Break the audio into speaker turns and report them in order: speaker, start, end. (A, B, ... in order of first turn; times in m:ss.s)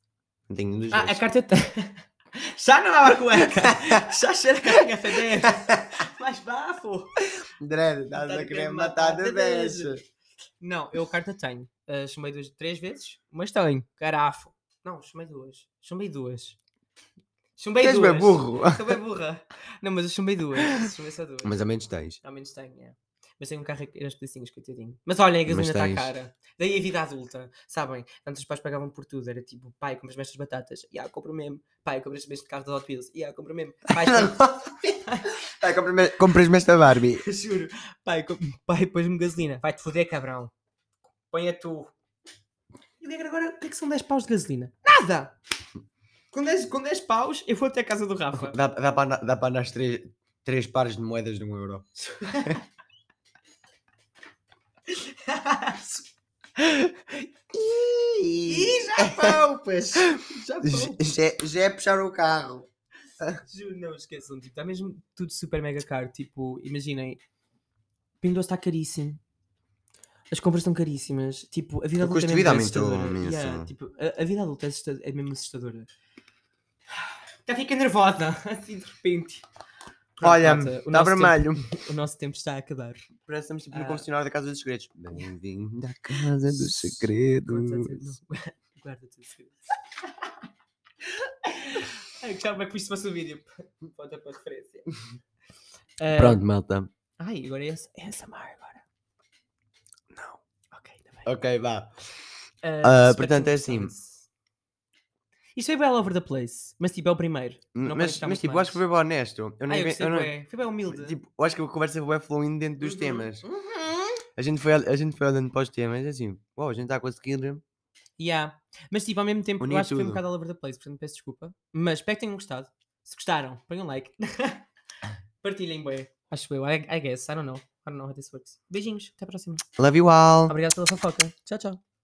0:00.5-0:01.2 A
0:00.9-0:07.3 B
0:03.5-0:04.0 A
0:05.4-0:05.8 A
0:07.4-0:10.0 A
0:08.1-0:10.0 B
0:10.6-0:16.6 B
0:17.6-0:21.6 B
0:17.8-0:19.0 A
0:21.4-0:22.2 A
0:22.2-0:35.4 B
0:25.5-0:26.1 A
0:33.9-0:37.2 A
0:37.2-0:40.5 B
0:41.3-0:41.9 B
0:43.0-0:45.4 B
0:46.3-0:48.6 B
0:48.3-0:52.6 A
0:52.0-0:52.6 B
0:54.9-0:56.0 B
0:56.6-0:56.9 A
0:57.5-0:59.4 A
0:58.5-1:01.1 B
1:00.0-1:02.7 A
1:03.4-1:07.2 B
1:08.2-1:09.2 B
1:10.3-1:15.9 B
1:12.0-1:13.7 A
1:17.5-1:19.4 B
1:20.2-1:23.1 B
1:20.2-1:21.7 A
1:23.3-1:28.2 A
1:23.7-1:24.1 B
1:26.5-1:29.6 B
1:31.0-1:35.0 B
1:36.0-1:36.4 B
1:36.1-1:36.9 A
1:37.2-1:38.8 B
1:40.1-1:40.4 A
1:40.7-1:41.3 B
1:41.3-1:41.9 A
1:42.6-1:44.3 B
1:42.8-1:43.9 A
1:45.6-1:48.8 B
1:47.8-1:50.3 A
1:49.7-1:51.2 B
1:50.9-1:53.4 A
1:52.8-1:54.2 B
1:54.4-1:57.6 A
1:58.2-2:04.6 B
1:59.6-2:00.2 A
2:05.4-2:09.6 B
2:09.8-2:10.6 A
2:10.5-2:11.8 B